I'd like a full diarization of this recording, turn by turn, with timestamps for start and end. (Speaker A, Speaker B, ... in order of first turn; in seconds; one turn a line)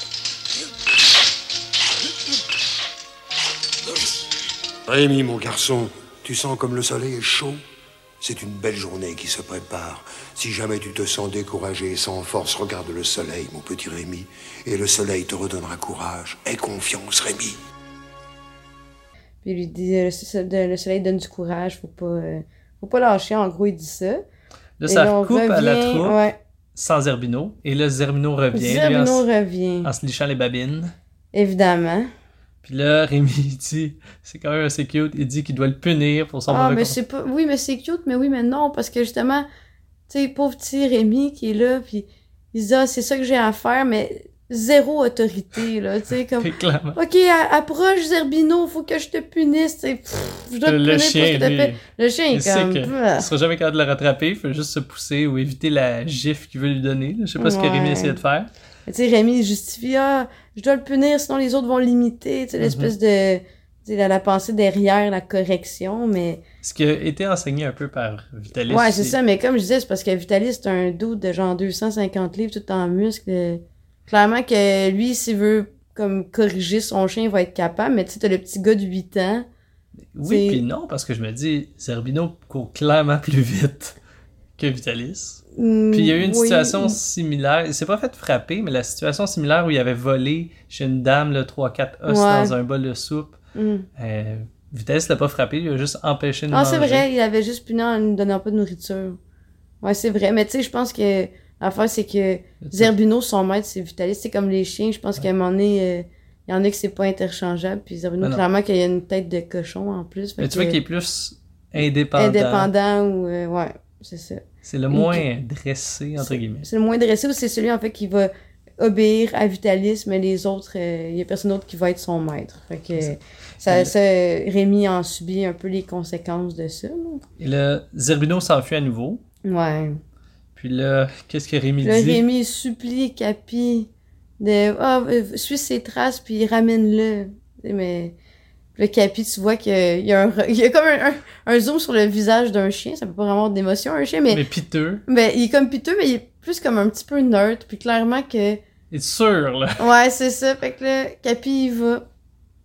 Speaker A: 4.9-7.6
Speaker A: 8.2-17.6
Speaker B: 19.4-24.2
Speaker C: 24.8-26.2
Speaker B: 24.9-26.4
Speaker C: 26.8-29.2
Speaker B: 28.5-29.9
Speaker C: 29.8-30.9
Speaker B: 31.3-32.1
Speaker C: 32.6-37.0
Speaker B: 36.5-39.4
Speaker B: 40.1-53.3
Speaker C: 46.4-47.0
Speaker C: 50.6-58.5
Speaker B: 57.4-58.2
Speaker B: 58.9-66.4
Speaker C: 62.6-62.9
Speaker C: 66.6-69.2
Speaker B: 68.7-79.5
Speaker C: 80.1-84.0
Speaker B: 80.2-80.6
Speaker C: 84.6-93.4
Speaker B: 85.6-87.0
Speaker B: 92.1-92.5
Speaker B: 93.5-93.9
Speaker C: 94.0-97.0
Speaker B: 96.5-99.2
Speaker B: 99.8-110.8
Speaker C: 102.6-102.9
Speaker C: 110.4-112.7
Speaker B: 111.8-115.2
Speaker C: 114.6-116.7
Speaker B: 116.2-127.2
Speaker C: 123.6-123.9
Speaker C: 127.4-129.2
Speaker B: 129.5-130.0
Speaker C: 130.6-132.2
Speaker B: 131.8-133.9
Speaker B: 134.4-138.1
Speaker B: 138.8-144.4
Speaker C: 144.3-145.0
Speaker B: 145.1-148.6
Speaker C: 148.9-149.8
Speaker B: 149.8-152.0